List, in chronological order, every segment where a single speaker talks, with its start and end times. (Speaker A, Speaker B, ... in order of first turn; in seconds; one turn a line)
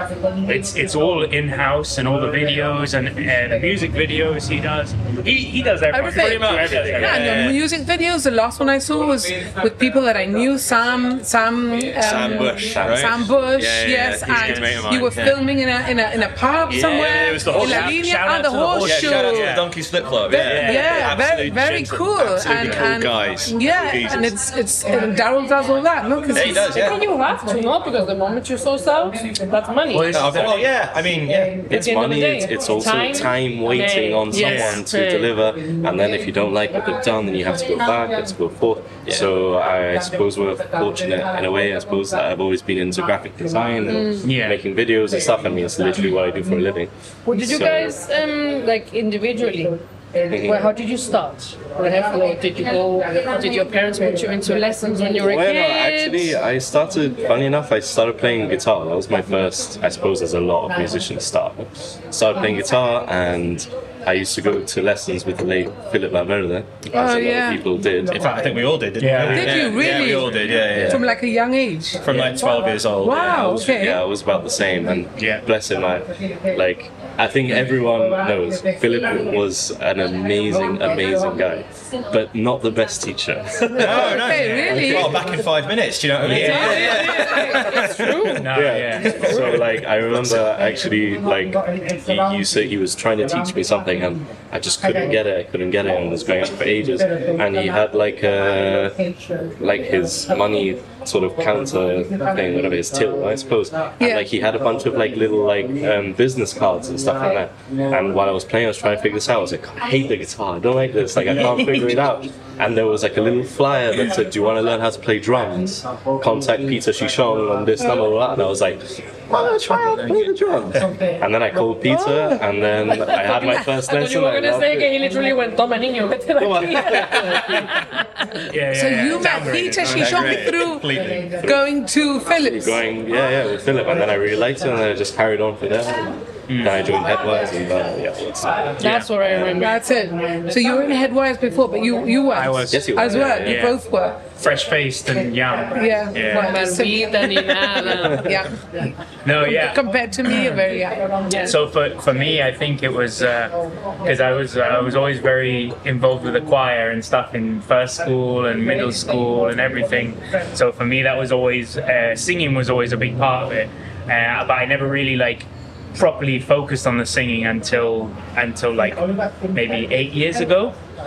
Speaker A: 0.5-7.5
Speaker B: 5.9-19.6
Speaker C: 6.1-7.6
Speaker C: 12.0-15.4
Speaker D: 12.1-13.1
Speaker A: 14.3-14.8
Speaker C: 16.7-18.0
Speaker A: 17.5-19.6
Speaker C: 18.8-24.3
Speaker B: 20.3-26.7
Speaker A: 20.3-21.1
Speaker C: 26.3-27.0
Speaker E: 26.4-30.2
Speaker A: 29.9-30.7
Speaker C: 30.1-31.7
Speaker D: 31.4-46.9
Speaker E: 31.7-35.3
Speaker A: 34.3-34.8
Speaker E: 43.9-44.3
Speaker A: 44.2-44.6
Speaker E: 47.3-49.8
Speaker D: 47.4-47.9
Speaker D: 50.3-50.7
Speaker E: 50.4-56.4
Speaker D: 55.2-68.2
Speaker B: 66.9-67.6
Speaker C: 68.1-71.0
Speaker A: 69.0-70.1
Speaker B: 69.2-72.0
Speaker D: 70.6-71.0
Speaker C: 72.0-73.9
Speaker A: 72.1-72.4
Speaker B: 73.0-74.0
Speaker D: 73.7-85.0
Speaker A: 75.2-75.4
Speaker B: 83.7-85.3
Speaker C: 83.7-90.4
Speaker A: 86.2-87.6
Speaker E: 86.4-88.5
Speaker A: 88.3-89.3
Speaker D: 88.4-99.0
Speaker D: 99.6-124.9
Speaker B: 104.0-104.3
Speaker C: 119.7-120.3
Speaker E: 122.9-127.8
Speaker D: 126.4-127.7
Speaker A: 128.5-130.4
Speaker B: 128.7-132.8
Speaker C: 129.8-131.4
Speaker D: 132.3-138.8
Speaker A: 136.5-136.8
Speaker A: 138.8-139.1
Speaker E: 138.8-139.8
Speaker B: 139.4-144.3
Speaker A: 142.3-143.8
Speaker D: 142.7-143.7
Speaker A: 144.4-146.5
Speaker B: 145.7-148.6
Speaker E: 146.3-148.5
Speaker A: 149.2-149.8
Speaker B: 149.3-151.3
Speaker A: 151.4-169.0
Speaker A: 169.5-170.8